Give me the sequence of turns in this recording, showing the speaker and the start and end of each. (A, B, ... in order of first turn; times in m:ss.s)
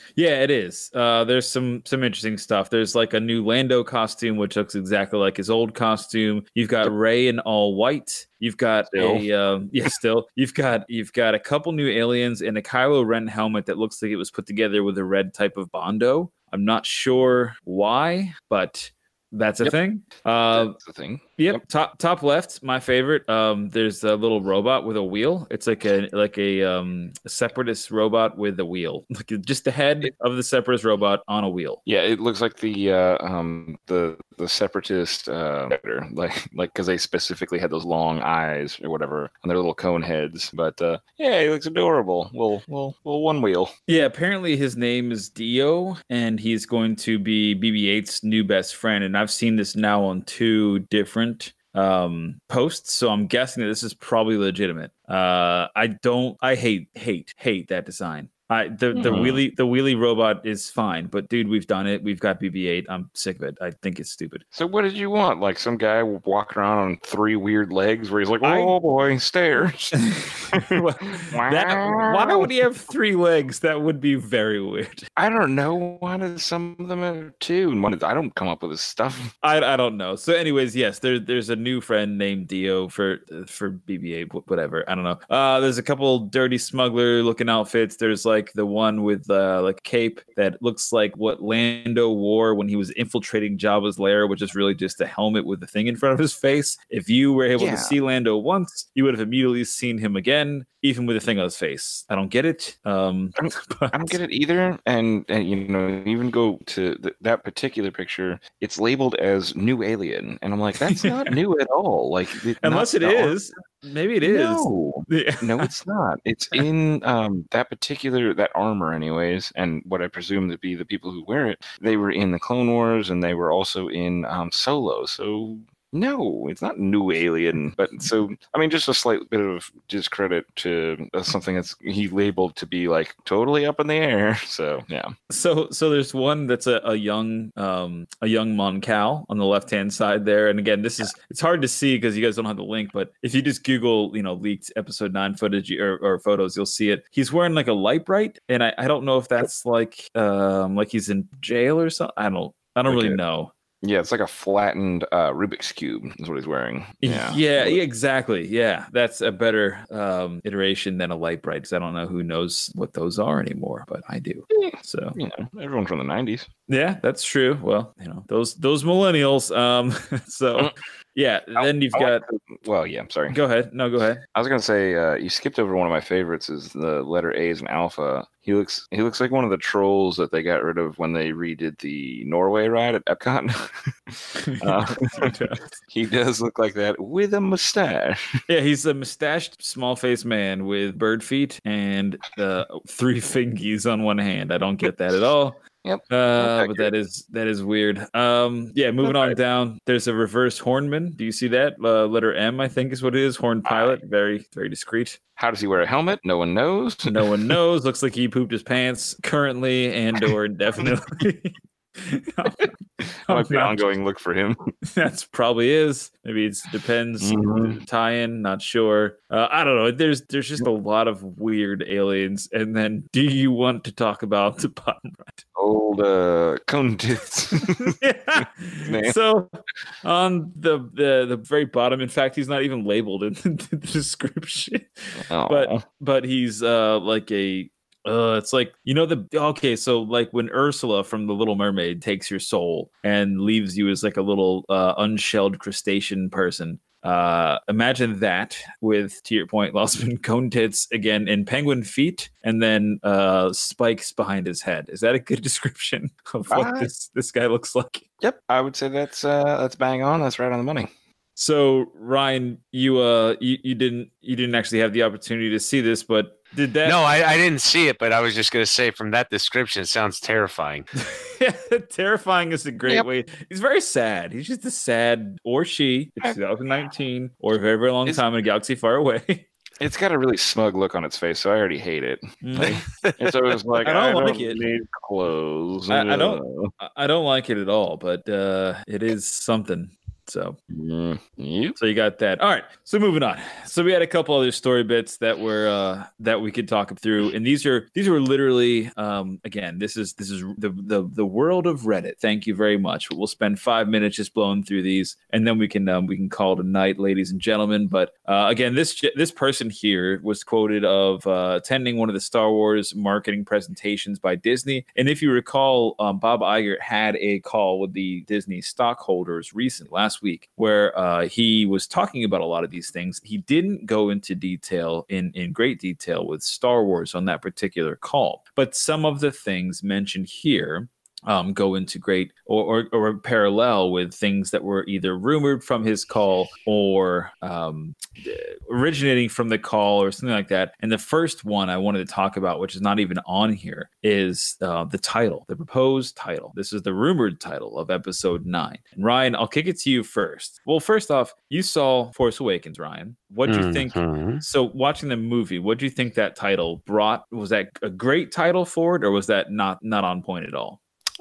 0:00.2-0:20.8 A
0:08.9-0:09.3 B
0:20.5-0:21.6 B
0:21.4-0:31.8 A
0:31.8-0:43.7 B
0:43.9-1:04.4 A
0:58.9-0:59.4 B
1:04.5-1:12.5 B
1:08.4-1:08.8 A
1:10.1-1:15.1 A
1:15.2-1:19.3 B
1:19.4-1:44.2 A
1:37.6-1:37.9 B
1:43.4-1:53.4 B
1:50.9-1:51.3 A
1:52.6-1:55.7 A
1:54.2-2:15.1 B
2:15.3-2:33.5 A
2:32.9-2:33.2 B
2:33.8-2:37.8 B
2:37.0-2:45.2 A
2:44.5-2:46.5 B
2:46.7-2:52.2 A
2:51.6-2:53.4 B
2:53.3-2:54.2 A
2:54.2-3:08.4 B
3:04.4-3:05.7 A
3:08.5-3:25.2 A
3:15.8-3:16.9 B
3:19.0-3:19.3 B
3:23.6-3:24.0 B
3:25.4-3:27.5 B
3:27.1-3:32.7 A
3:33.2-3:34.7 B
3:33.2-3:33.8 A
3:34.9-3:45.4 A
3:37.2-3:37.8 B
3:45.6-3:49.2 B
3:47.8-3:49.5 A
3:50.0-4:18.0 A
3:55.2-3:55.8 B
4:16.5-4:16.9 B
4:18.2-4:20.9 B
4:21.4-4:27.0 A
4:26.8-4:30.8 C
4:31.0-4:39.4 A
4:39.8-4:46.7 B
4:42.4-4:42.8 A
4:43.8-4:44.6 A
4:45.9-4:50.6 A
4:50.7-4:51.8 B
4:51.8-6:00.8 A
5:53.5-5:54.4 C